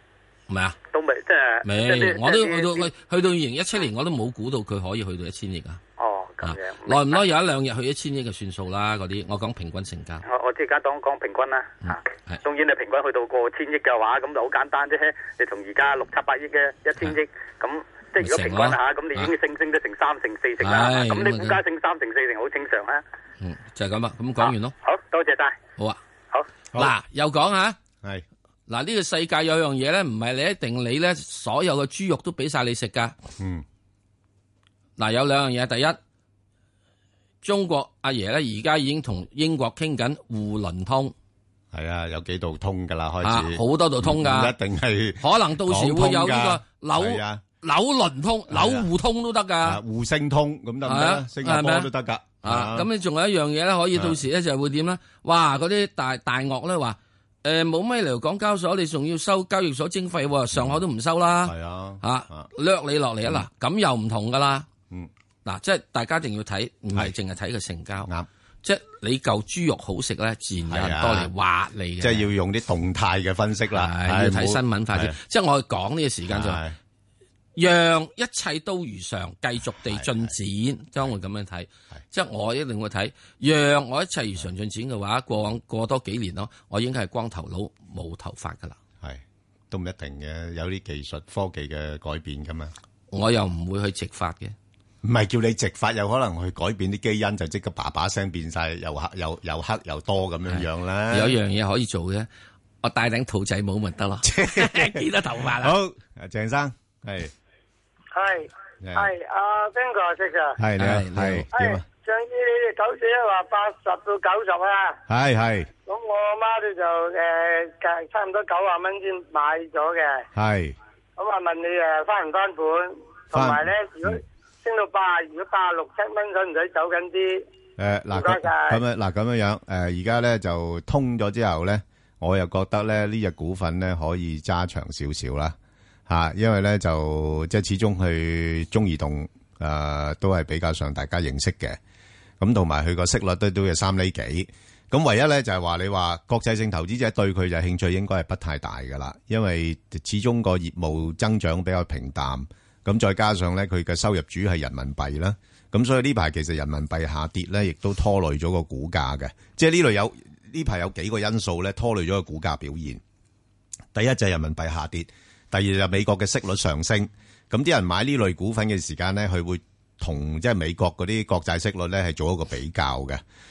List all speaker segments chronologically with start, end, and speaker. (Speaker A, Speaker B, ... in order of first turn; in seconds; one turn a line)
Speaker A: 0.5-0.8
Speaker B: 0.9-2.9
Speaker A: 1.6-5.8
Speaker B: 6.0-7.2
Speaker A: 6.4-10.2
Speaker B: 10.3-23.0
Speaker A: 11.8-12.4
Speaker A: 18.2-19.3
Speaker A: 20.6-21.6
Speaker A: 23.4-24.7
Speaker B: 24.4-25.6
Speaker A: 26.8-27.8
Speaker A: 28.7-33.2
Speaker C: 33.4-33.6
Speaker A: 35.0-36.0
Speaker A: 37.4-41.1
Speaker C: 41.7-47.4
Speaker A: 43.2-44.5
Speaker A: 45.2-49.8
Speaker C: 48.5-48.9
Speaker C: 49.6-52.9
Speaker A: 50.9-51.9
Speaker A: 52.4-64.7
Speaker C: 54.0-54.2
Speaker C: 61.5-62.5
Speaker A: 65.5-68.1
Speaker A: 68.6-72.3
Speaker C: 70.7-71.3
Speaker C: 72.0-75.2
Speaker A: 73.7-76.6
Speaker C: 76.3-76.8
Speaker A: 77.6-88.8
Speaker C: 79.7-80.3
Speaker C: 89.0-92.7
Speaker A: 93.1-94.5
Speaker C: 95.0-101.4
Speaker A: 100.5-102.3
Speaker A: 102.8-105.7
Speaker C: 104.2-105.0
Speaker C: 105.6-107.3
Speaker D: 108.1-110.5
Speaker C: 108.8-109.1
Speaker C: 110.6-111.8
Speaker A: 110.8-111.4
Speaker D: 111.5-115.0
Speaker C: 115.1-115.7
Speaker D: 115.9-120.2
Speaker C: 120.3-120.8
Speaker D: 121.2-127.4
Speaker C: 123.3-124.2
Speaker C: 127.8-135.6
Speaker D: 128.1-128.8
Speaker C: 136.1-141.8
Speaker C: 142.4-163.0
Speaker C: 163.9-173.2